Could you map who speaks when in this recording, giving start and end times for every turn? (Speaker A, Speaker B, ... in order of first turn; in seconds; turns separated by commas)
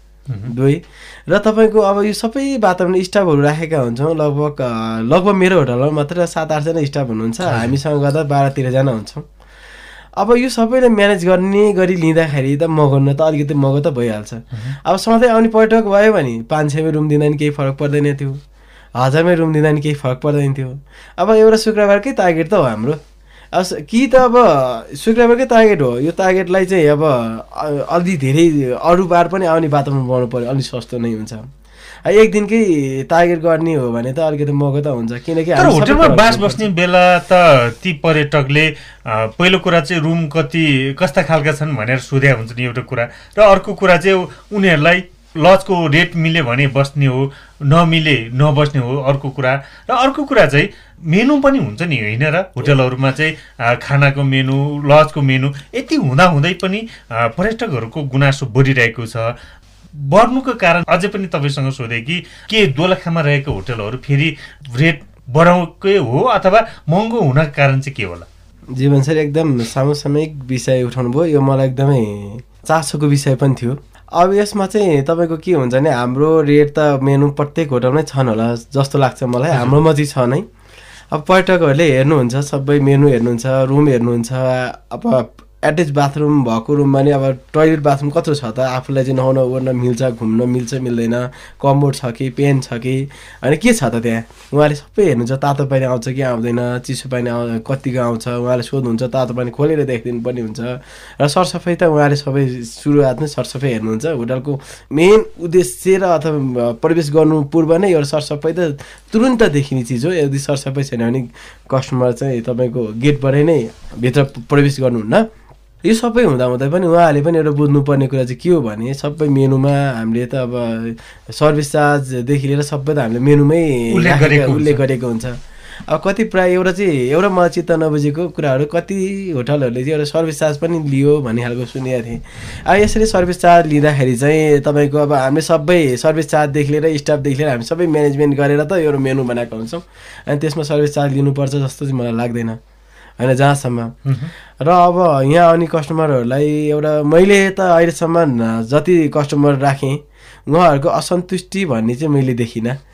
Speaker A: 0.5-9.2, Speaker B: 7.4-7.8, Speaker A: 10.2-18.4, Speaker A: 19.0-23.0, Speaker A: 23.5-31.5, Speaker A: 32.0-36.6, Speaker B: 35.6-59.3, Speaker B: 59.9-68.3, Speaker A: 68.8-80.5, Speaker A: 81.1-115.3, Speaker A: 115.8-125.3, Speaker B: 123.9-124.8, Speaker A: 125.9-142.6, Speaker A: 143.2-143.9, Speaker B: 144.0-144.3, Speaker A: 144.6-152.8